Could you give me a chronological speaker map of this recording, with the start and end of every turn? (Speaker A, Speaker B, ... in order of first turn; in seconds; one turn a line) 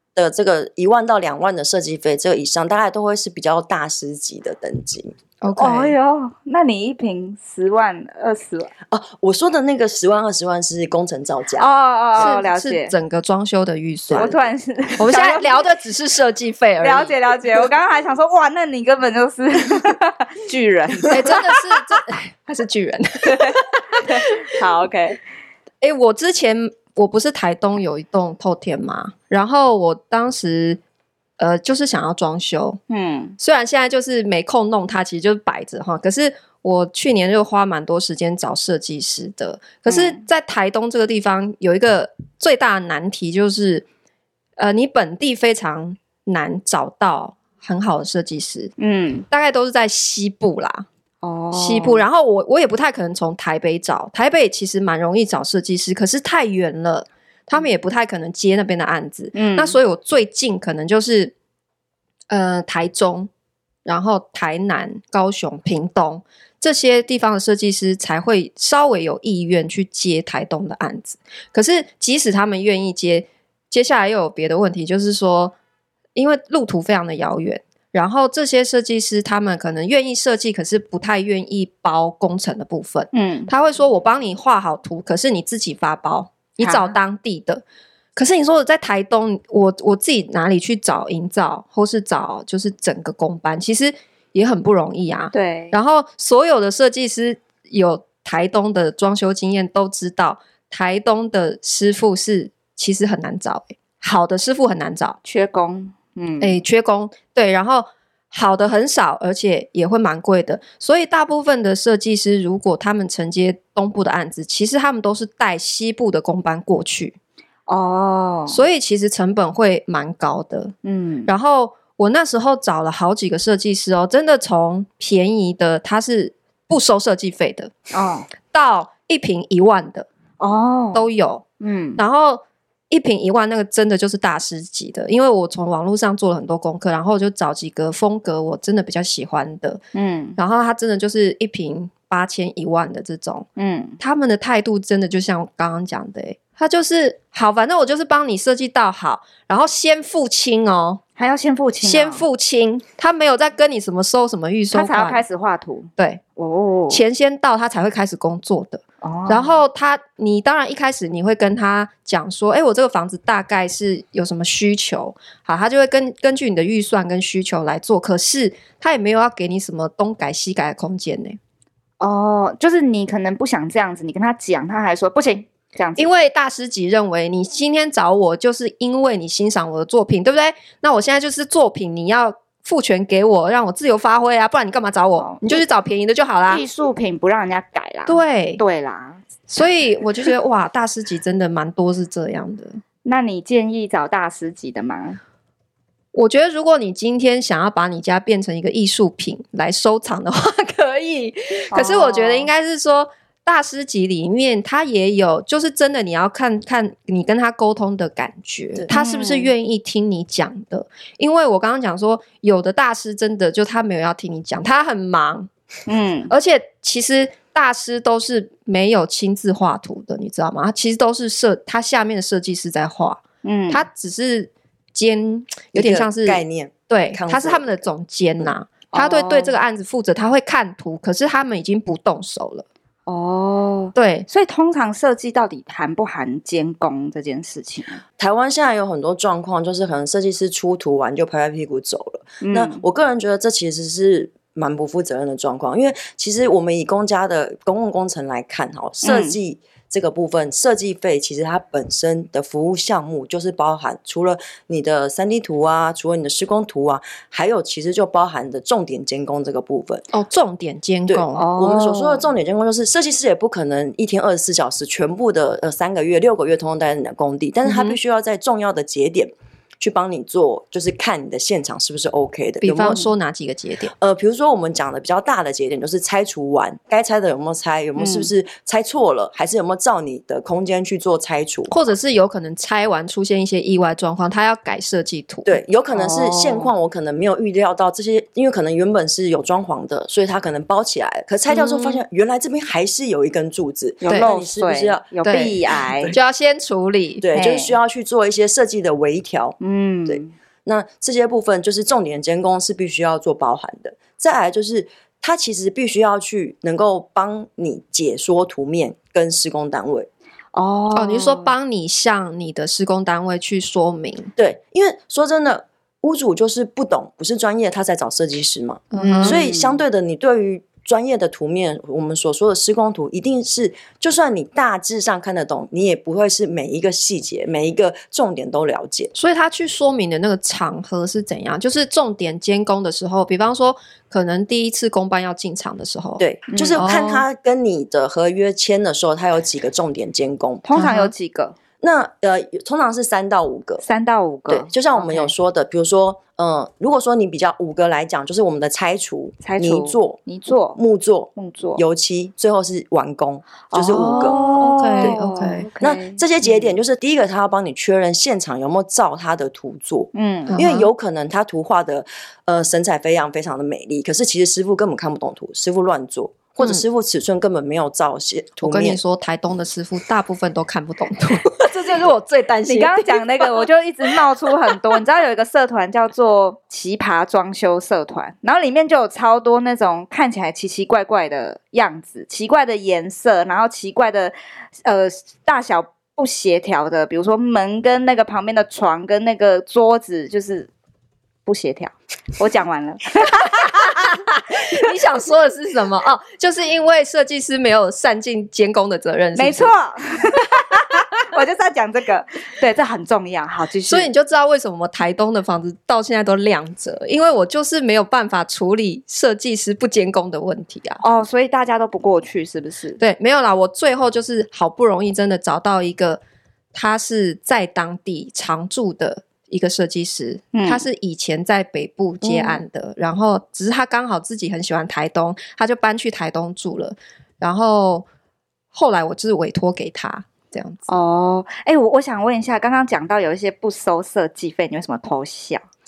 Speaker A: 0.1-5.1
Speaker B: 5.4-6.0
Speaker C: 5.6-8.7
Speaker A: 8.9-12.4
Speaker C: 11.6-12.9
Speaker B: 12.2-14.3
Speaker A: 14.1-14.5
Speaker C: 14.1-15.6
Speaker B: 15.0-17.2
Speaker C: 16.8-21.5
Speaker B: 21.1-24.5
Speaker C: 23.3-25.2
Speaker B: 25.8-30.8
Speaker B: 31.4-32.8
Speaker C: 32.9-33.4
Speaker B: 33.4-43.9
Speaker C: 39.9-40.2
Speaker B: 44.6-48.7
Speaker C: 48.8-49.3
Speaker B: 49.3-50.9
Speaker C: 51.2-52.0
Speaker B: 51.5-61.3
Speaker C: 59.4-59.8
Speaker B: 62.3-63.3
Speaker B: 63.9-75.5
Speaker B: 76.2-87.6
Speaker C: 83.1-83.5
Speaker C: 86.6-87.0
Speaker B: 88.2-105.2
Speaker C: 95.3-95.8
Speaker C: 105.2-106.6
Speaker B: 106.4-117.2
Speaker C: 117.7-118.6
Speaker B: 118.5-120.7
Speaker C: 120.8-121.3
Speaker B: 121.3-127.8
Speaker C: 127.9-128.3
Speaker B: 128.4-130.1
Speaker C: 130.4-131.1
Speaker B: 130.9-131.4
Speaker C: 131.6-132.0
Speaker B: 132.0-139.8
Speaker C: 139.9-140.4
Speaker B: 140.4-143.5
Speaker C: 143.6-144.0
Speaker B: 144.0-151.0
Speaker C: 151.2-152.2
Speaker B: 151.8-155.2
Speaker C: 154.7-157.0
Speaker B: 156.9-171.4
Speaker C: 159.0-159.6
Speaker C: 172.0-176.1
Speaker B: 176.0-186.6
Speaker C: 185.2-185.6
Speaker C: 186.5-189.2
Speaker B: 188.1-188.6
Speaker B: 189.5-192.8
Speaker C: 193.1-195.2
Speaker B: 196.1-215.5
Speaker C: 201.7-202.5
Speaker C: 208.9-209.5
Speaker C: 215.9-216.3
Speaker B: 216.3-232.7
Speaker C: 223.4-223.8
Speaker A: 225.7-227.8
Speaker C: 228.9-229.6
Speaker C: 233.1-238.0
Speaker B: 234.0-234.3
Speaker A: 238.2-260.1
Speaker C: 242.4-242.8
Speaker C: 249.0-249.3
Speaker B: 260.1-261.5
Speaker A: 261.1-273.0
Speaker C: 261.4-262.3
Speaker B: 267.6-268.0
Speaker B: 272.6-273.9
Speaker C: 272.9-273.1
Speaker A: 274.0-281.7
Speaker C: 278.0-278.3
Speaker B: 281.7-285.6
Speaker A: 285.4-296.2
Speaker C: 285.9-286.7
Speaker B: 291.5-292.0
Speaker C: 294.0-296.2
Speaker B: 295.2-295.6
Speaker B: 296.1-297.3
Speaker A: 297.2-310.1
Speaker C: 297.4-297.8
Speaker C: 299.6-300.3
Speaker C: 310.5-311.5
Speaker B: 310.9-314.3
Speaker A: 314.4-329.1
Speaker B: 318.9-319.4
Speaker C: 318.9-319.8
Speaker B: 329.1-336.2
Speaker A: 336.2-340.7
Speaker C: 336.5-336.8
Speaker B: 336.8-337.2
Speaker C: 340.7-341.6
Speaker B: 340.8-341.1
Speaker A: 341.8-343.8
Speaker C: 343.9-345.3
Speaker A: 344.5-350.2
Speaker C: 349.4-350.8
Speaker A: 350.8-354.4
Speaker C: 351.4-351.8
Speaker C: 353.7-356.8
Speaker B: 353.9-355.7
Speaker A: 355.8-369.0
Speaker C: 360.1-360.6
Speaker B: 360.5-360.9
Speaker B: 368.6-374.2
Speaker C: 372.7-390.7
Speaker C: 391.5-393.9
Speaker B: 393.3-399.7
Speaker C: 399.4-404.1
Speaker B: 403.9-411.0
Speaker C: 411.0-413.0
Speaker B: 413.0-416.2
Speaker B: 416.7-428.1
Speaker C: 420.5-420.9
Speaker C: 422.3-422.6
Speaker B: 428.7-430.9
Speaker C: 430.9-435.6